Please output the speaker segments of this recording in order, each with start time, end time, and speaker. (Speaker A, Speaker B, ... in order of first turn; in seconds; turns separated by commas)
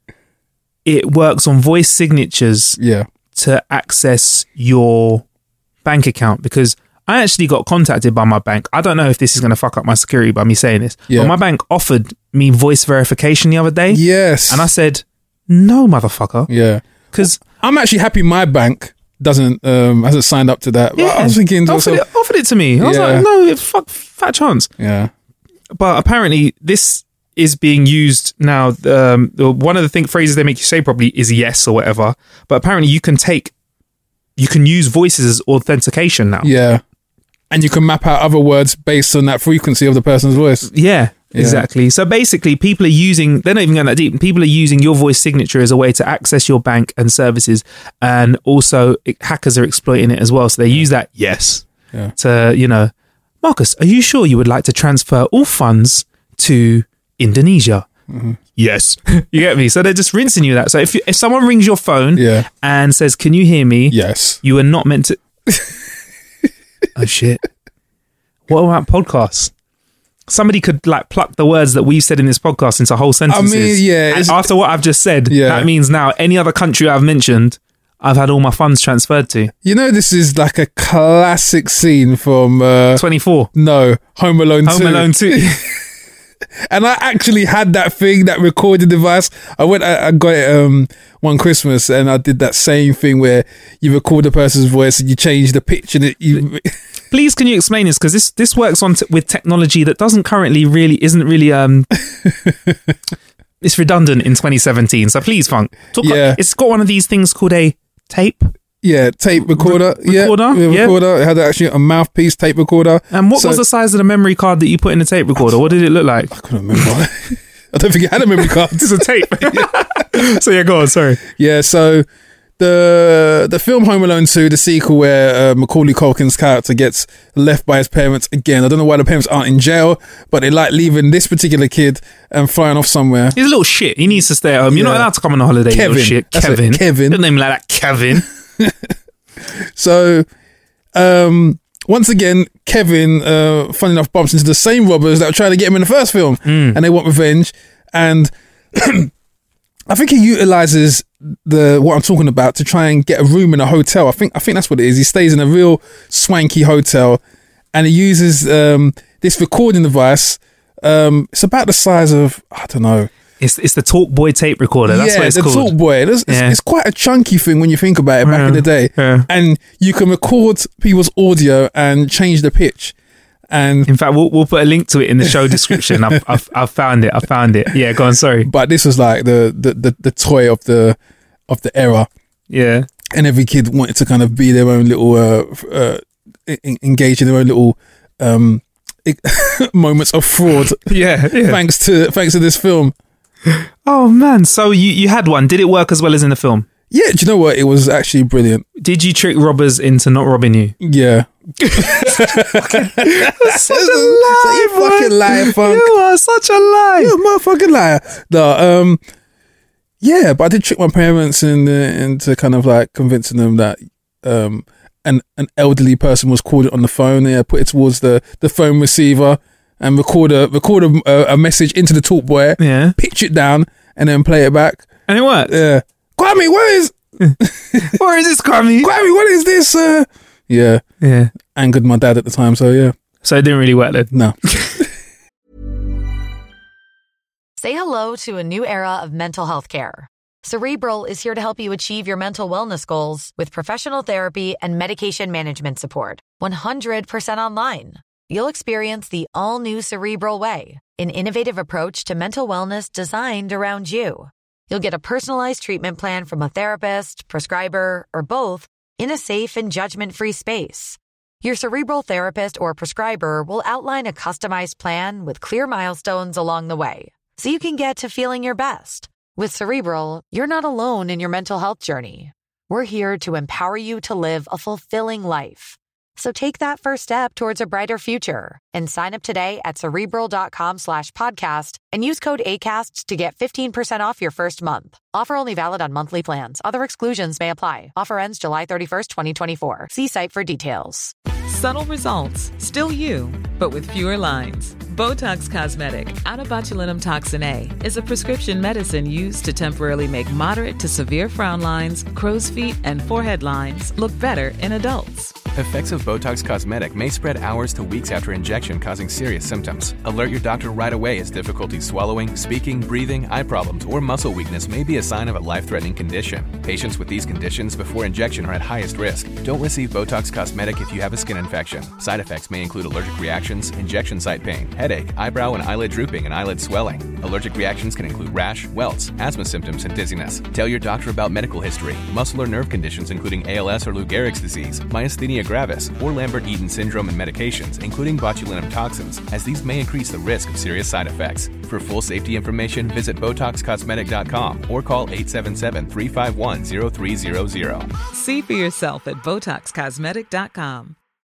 Speaker A: 0.8-2.8, Speaker B: 2.8-3.1, Speaker A: 3.4-5.2, Speaker A: 5.8-16.5, Speaker B: 11.1-11.3, Speaker B: 13.9-14.7, Speaker B: 16.5-22.0, Speaker A: 17.1-17.4, Speaker A: 21.0-24.7, Speaker B: 22.8-23.3, Speaker B: 24.8-25.1, Speaker A: 25.7-33.5, Speaker A: 34.4-36.5, Speaker B: 36.4-36.8, Speaker B: 37.5-40.7, Speaker A: 40.7-52.9, Speaker B: 41.3-41.6, Speaker A: 53.4-57.9, Speaker B: 58.1-58.4, Speaker A: 58.6-65.2, Speaker B: 62.2-62.5, Speaker B: 63.9-64.4, Speaker A: 67.0-67.4, Speaker A: 68.5-69.5, Speaker A: 70.3-79.5, Speaker B: 73.3-74.5, Speaker B: 75.3-75.7, Speaker B: 79.6-83.0, Speaker A: 83.0-83.5, Speaker B: 83.5-85.8, Speaker A: 84.7-85.6, Speaker B: 86.7-96.8, Speaker A: 97.1-101.9, Speaker B: 102.1-102.9, Speaker A: 103.6-108.5, Speaker B: 106.0-106.4, Speaker B: 108.8-113.6, Speaker A: 109.5-111.0, Speaker A: 113.1-116.8, Speaker B: 116.3-120.2, Speaker A: 118.4-121.2, Speaker B: 121.3-122.1, Speaker B: 122.6-133.4, Speaker A: 133.4-138.2, Speaker B: 134.7-135.1, Speaker B: 135.7-137.2, Speaker B: 138.6-140.3, Speaker B: 140.9-149.1, Speaker A: 146.5-146.8, Speaker B: 149.9-157.2, Speaker B: 157.7-163.1, Speaker A: 163.4-165.7, Speaker B: 164.9-172.9, Speaker A: 166.3-166.6, Speaker A: 168.2-169.3, Speaker B: 173.5-173.9, Speaker A: 173.9-178.5, Speaker B: 175.5-176.1, Speaker B: 178.4-182.1, Speaker A: 182.5-182.9, Speaker B: 183.1-192.9, Speaker A: 190.9-191.6, Speaker A: 193.5-196.7, Speaker B: 196.9-198.7, Speaker A: 198.8-200.8, Speaker B: 200.8-205.9, Speaker A: 201.6-207.1, Speaker B: 207.0-209.0, Speaker B: 210.0-224.9, Speaker A: 222.6-223.0, Speaker A: 225.1-225.6, Speaker B: 225.5-228.0, Speaker A: 227.2-228.9, Speaker B: 228.8-230.8, Speaker A: 231.0-231.3, Speaker B: 231.4-232.9, Speaker A: 233.2-234.8, Speaker B: 234.1-234.4, Speaker C: 237.6-291.1, Speaker D: 291.5-305.4, Speaker E: 305.5-347.9, Speaker D: 348.1-351.0